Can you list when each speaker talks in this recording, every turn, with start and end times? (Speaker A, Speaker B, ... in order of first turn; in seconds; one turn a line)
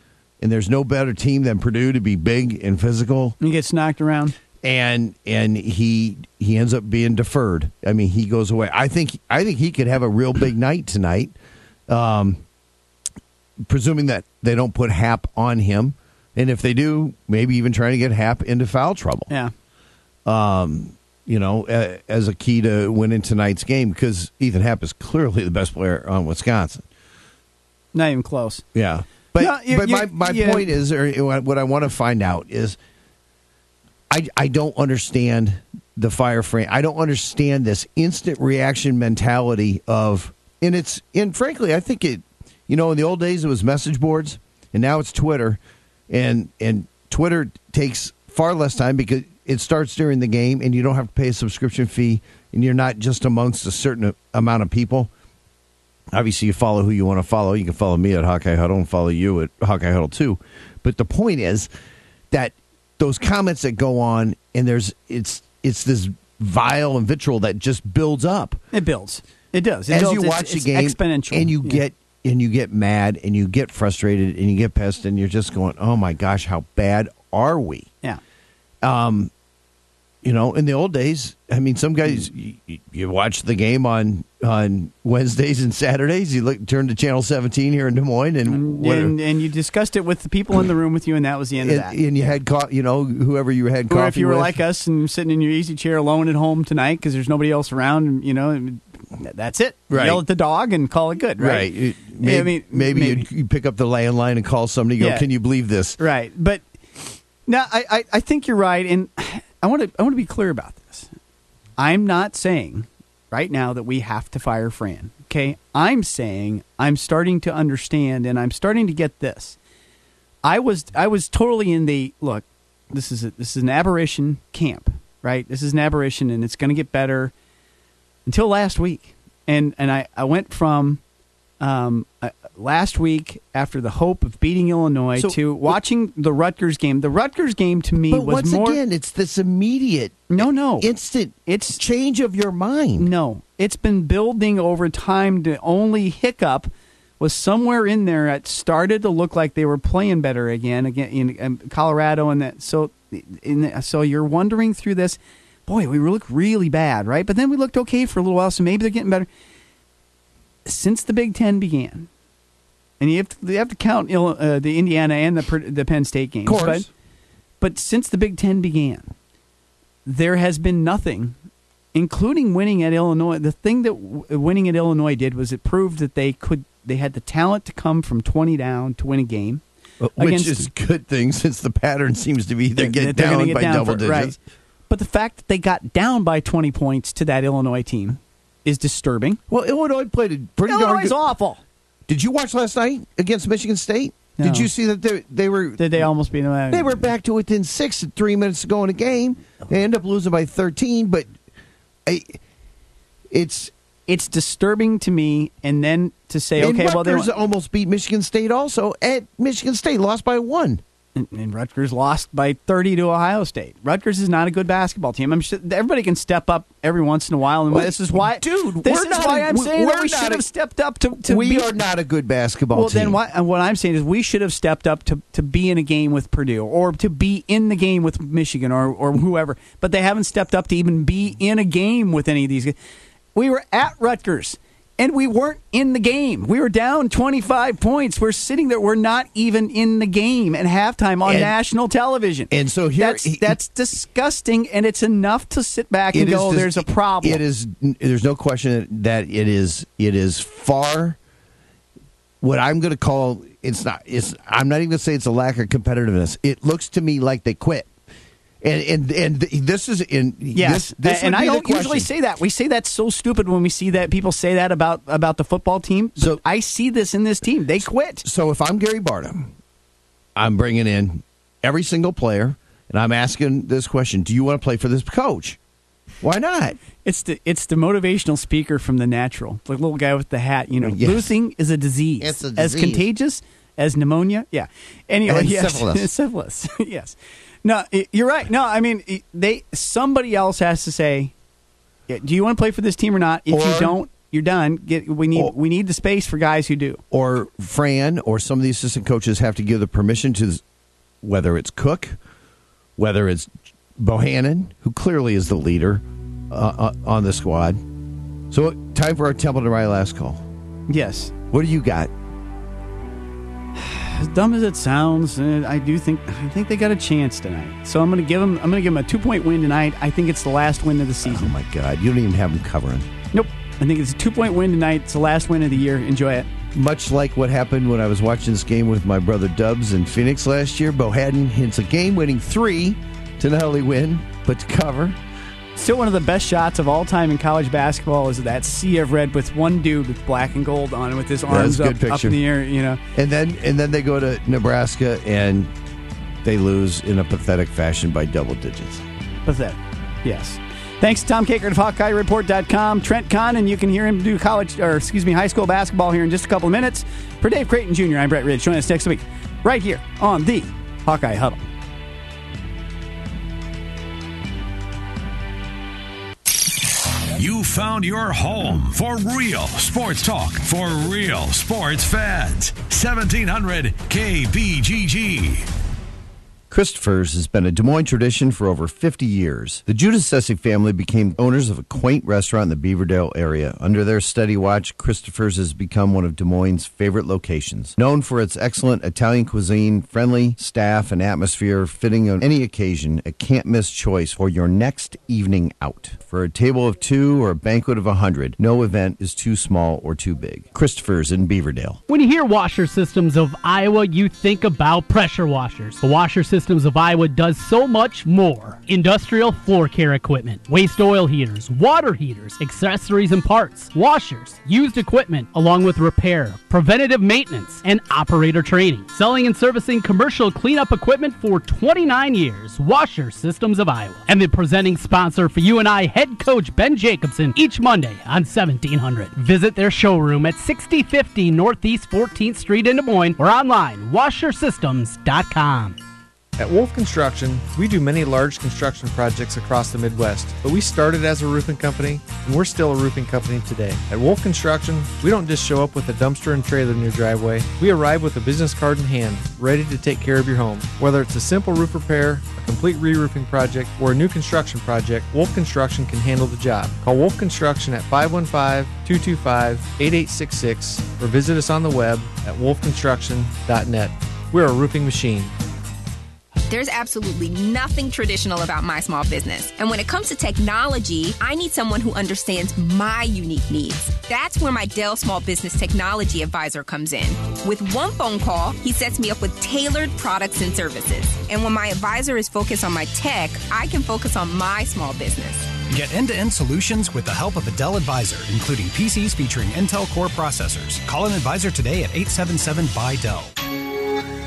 Speaker A: 0.4-3.4
Speaker B: 3.4-4.3
Speaker A: 4.6-11.3
Speaker A: 11.9-12.4
Speaker A: 13.6-19.3
Speaker A: 20.2-26.9
Speaker B: 27.9-28.6
Speaker A: 28.7-32.8
Speaker B: 29.4-30.7
Speaker A: 34.1-55.1
Speaker A: 56.1-61.7
Speaker A: 62.3-68.6
Speaker B: 68.7-71.8
Speaker A: 69.9-77.9
Speaker A: 78.8-79.3
Speaker A: 80.2-89.2
Speaker B: 88.5-92.0
Speaker A: 91.6-94.6
Speaker B: 93.9-103.2
Speaker A: 99.9-100.2
Speaker A: 101.4-106.0
Speaker B: 105.0-105.3
Speaker B: 106.0-106.7
Speaker B: 107.4-111.1
Speaker B: 111.8-119.6
Speaker B: 120.4-127.3
Speaker B: 128.2-131.0
Speaker B: 131.6-138.8
Speaker A: 138.1-143.1
Speaker B: 140.3-140.9
Speaker B: 141.4-141.8
Speaker B: 143.0-159.3
Speaker B: 160.7-162.1
Speaker B: 163.0-166.9
Speaker A: 166.4-166.9
Speaker B: 167.6-169.1
Speaker B: 170.1-171.3
Speaker B: 171.9-179.6
Speaker A: 180.0-184.4
Speaker B: 180.2-180.7
Speaker B: 182.8-184.4
Speaker B: 184.9-189.4
Speaker A: 189.5-191.2
Speaker B: 190.7-191.6
Speaker A: 192.1-196.1
Speaker B: 194.4-194.7
Speaker B: 195.8-197.1
Speaker A: 196.7-201.3
Speaker A: 202.1-202.4
Speaker A: 203.3-203.7
Speaker B: 204.1-207.3
Speaker A: 206.6-210.8
Speaker B: 211.2-221.7
Speaker A: 217.7-220.4
Speaker A: 221.2-223.2
Speaker B: 222.7-232.8
Speaker B: 233.3-247.4
Speaker A: 241.2-241.5
Speaker A: 242.5-243.5
Speaker A: 246.1-251.2
Speaker A: 252.4-257.9
Speaker A: 258.6-262.1
Speaker B: 260.5-268.2
Speaker A: 268.2-269.5
Speaker A: 270.4-275.6
Speaker A: 276.2-276.8
Speaker B: 277.0-291.3
Speaker A: 280.8-281.3
Speaker A: 282.2-283.1
Speaker A: 285.3-286.1
Speaker B: 292.1-297.0
Speaker A: 293.5-293.9
Speaker A: 297.1-300.6
Speaker A: 301.2-302.2
Speaker A: 303.0-307.8
Speaker A: 308.5-310.4
Speaker B: 310.9-311.3
Speaker A: 311.5-312.1
Speaker B: 313.8-321.5
Speaker A: 321.2-323.1
Speaker B: 323.3-326.5
Speaker A: 326.7-335.2
Speaker B: 335.8-343.0
Speaker A: 341.5-342.4
Speaker A: 343.1-345.7
Speaker A: 346.4-349.0
Speaker B: 349.4-361.7
Speaker C: 367.4-375.7
Speaker A: 376.7-402.0
Speaker D: 402.1-435.9
Speaker E: 436.6-465.5
Speaker F: 466.7-485.7
Speaker G: 485.9-493.5